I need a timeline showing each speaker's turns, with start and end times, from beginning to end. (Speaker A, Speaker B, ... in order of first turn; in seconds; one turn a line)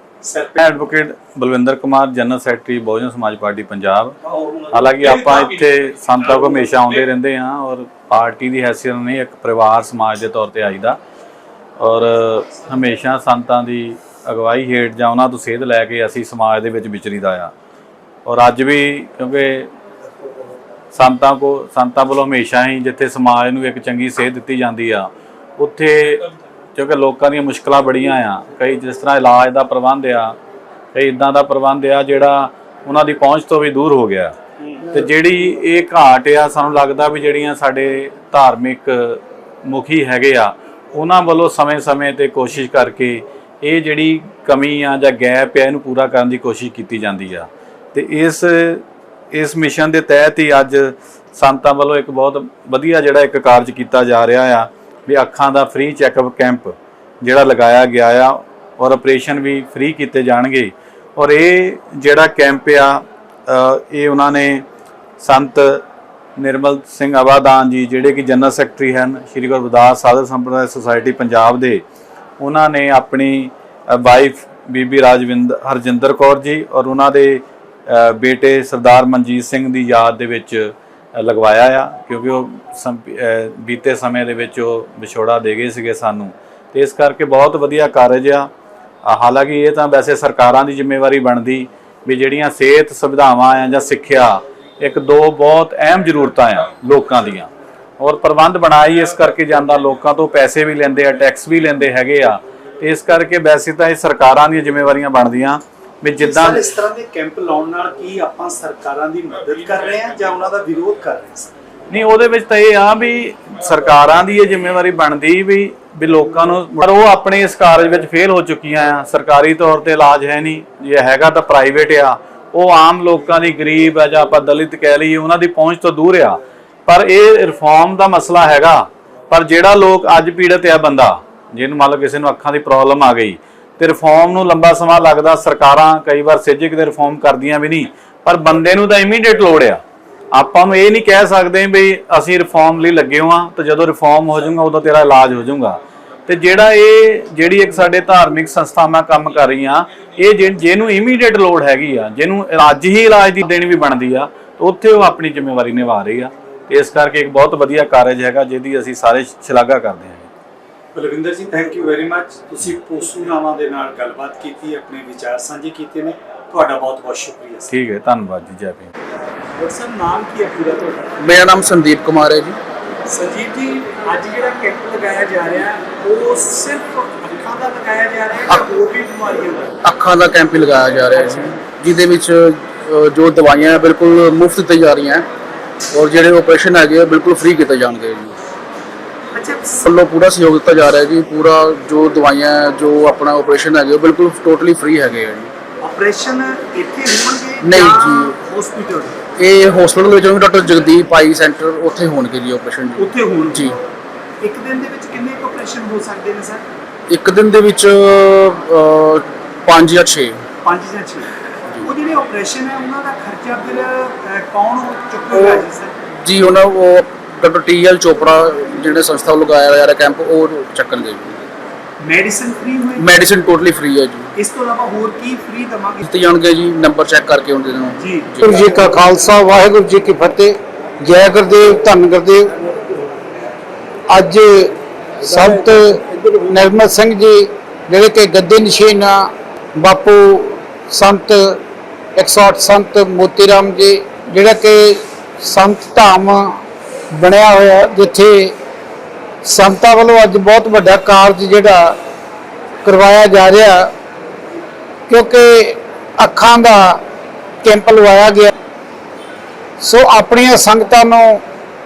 Speaker A: 0.2-0.6
Speaker B: 0.6-4.1
Speaker A: 4.3-5.3
Speaker B: 4.7-11.0
Speaker B: 11.8-17.5
Speaker B: 18.2-19.7
Speaker B: 20.9-26.2
Speaker B: 26.8-30.4
Speaker B: 30.9-34.3
Speaker B: 34.9-64.6
Speaker B: 65.2-65.8
Speaker B: 66.4-71.8
Speaker B: 72.4-88.5
Speaker B: 89.0-97.5
Speaker B: 98.0-106.6
Speaker A: 106.2-111.5
Speaker B: 111.9-139.8
Speaker B: 140.3-160.3
Speaker A: 160.9-167.7
Speaker B: 167.7-168.9
Speaker A: 169.6-171.1
Speaker C: 171.2-172.6
Speaker A: 173.1-179.7
Speaker C: 179.8-185.2
Speaker C: 185.9-188.3
Speaker A: 189.3-189.8
Speaker C: 189.8-195.5
Speaker A: 195.8-199.1
Speaker C: 197.6-198.3
Speaker C: 199.4-203.8
Speaker A: 203.0-203.7
Speaker A: 204.4-206.6
Speaker C: 207.1-210.4
Speaker A: 210.6-211.3
Speaker A: 211.8-215.9
Speaker C: 216.1-221.4
Speaker A: 222.0-223.0
Speaker C: 223.0-224.3
Speaker A: 224.4-226.0
Speaker C: 226.0-228.7
Speaker A: 228.0-228.3
Speaker D: 228.4-232.5
Speaker D: 234.1-241.6
Speaker D: 242.2-246.6
Speaker D: 247.2-248.5
Speaker D: 249.4-252.0
Speaker D: 252.8-253.9
Speaker D: 255.1-257.0
Speaker D: 257.6-258.5
Speaker D: 259.8-261.4